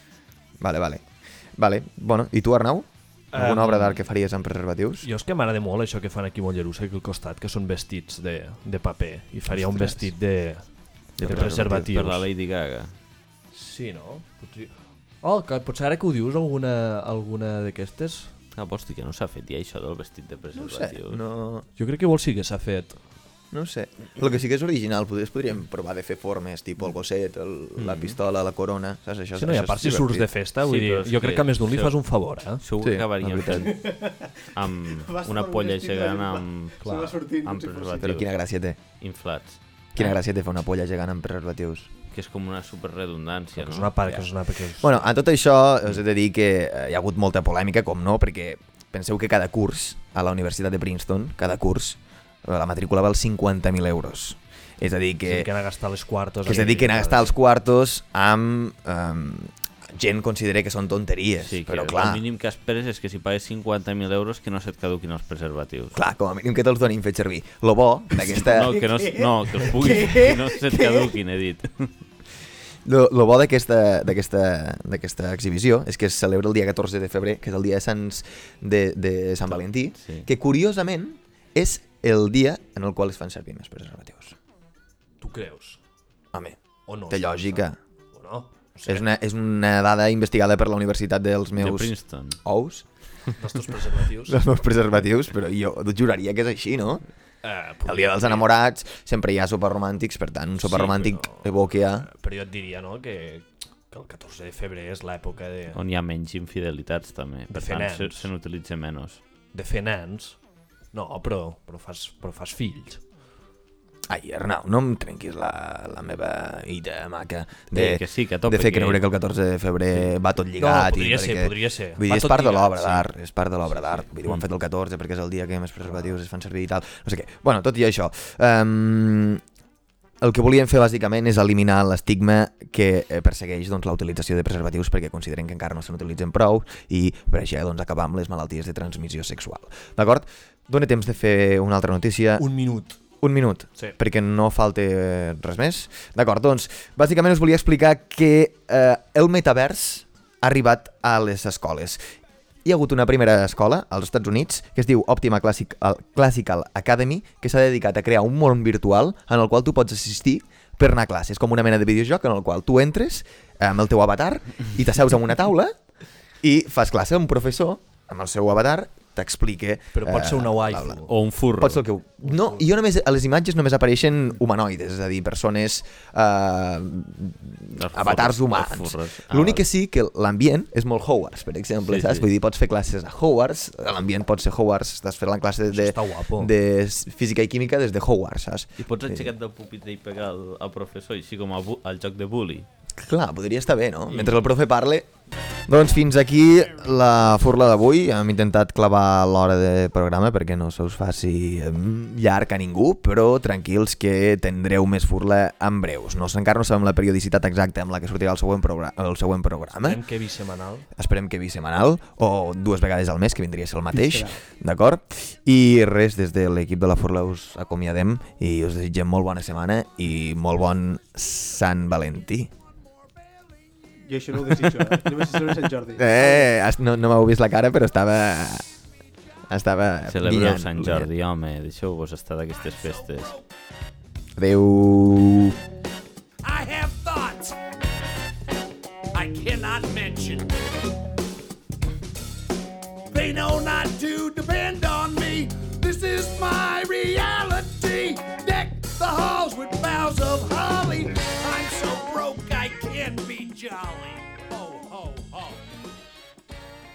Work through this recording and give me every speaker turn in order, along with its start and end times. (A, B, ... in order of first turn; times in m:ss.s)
0:00.6-0:05.1 A
0:03.3-0:04.0 B
0:05.0-0:10.7 B
0:09.5-0:10.1 A
0:11.2-0:12.0 A
0:11.2-0:12.3 B
0:11.2-0:12.9 C
0:13.5-0:18.3 B
0:18.6-0:21.2 C
0:20.6-0:21.7 A
0:21.8-0:23.0 B
0:23.5-0:30.3 A
0:27.8-0:28.2 C
0:29.4-0:32.6 B
0:30.6-0:32.0 C
0:32.6-0:33.9 C
0:32.8-0:33.7 A
0:33.5-0:38.1 D
0:34.5-0:38.3 C
0:36.8-0:37.1 B
0:38.0-0:38.8 A
0:39.0-0:39.6 C
0:40.0-0:41.9 A
0:42.1-0:44.0 C
0:43.6-0:45.1 B
0:44.8-0:55.5 A
0:55.2-0:57.4 B
0:56.4-1:02.2 A
1:01.4-1:06.0 C
1:06.0-1:08.8 A
1:08.2-1:11.9 C
1:08.8-1:11.1 D
1:12.9-1:24.4 A
1:20.0-1:20.3 C
1:25.2-1:25.8 B
1:26.3-1:27.8 A
1:26.9-1:29.0 B
1:28.8-1:32.9 A
1:31.6-1:32.4 C
1:33.4-1:34.4 B
1:34.3-1:37.0 A
1:37.4-1:38.5 B
1:37.8-1:42.1 A
1:40.6-1:45.8 B
1:45.7-1:49.2 C
1:47.5-1:48.3 B
1:49.5-1:50.4 B
1:50.9-1:53.0 B
1:54.1-2:09.4 A
1:57.7-1:59.0 C
2:00.6-2:03.1 B
2:03.7-2:04.1 B
2:10.2-2:22.5 A
2:22.4-2:23.0 B
2:23.2-2:32.0 A
2:32.6-2:45.8 A
2:46.4-2:51.0 A
2:50.0-2:51.1 B
2:51.1-2:51.8 C
2:51.6-3:09.3 A
2:52.2-2:52.7 B
2:57.8-2:59.7 C
3:01.9-3:02.3 C
3:05.7-3:06.5 B
3:08.8-3:12.7 C
3:13.0-3:15.1 A
3:15.7-3:30.0 A
3:29.8-3:30.9 B
3:31.0-3:42.5 A
3:34.0-3:34.4 D
3:44.1-3:46.5 D
3:46.0-3:48.7 A
3:49.5-3:51.1 A
3:50.1-3:53.4 C
3:54.4-3:55.6 A
3:56.5-3:57.6 E
3:59.1-4:00.5 E
4:03.1-4:06.6 E
4:03.3-4:03.7 B
4:04.4-4:05.4 B
4:06.1-4:08.2 B
4:07.3-4:13.7 E
4:09.2-4:10.9 B
4:12.8-4:13.1 B
4:13.7-4:15.5 B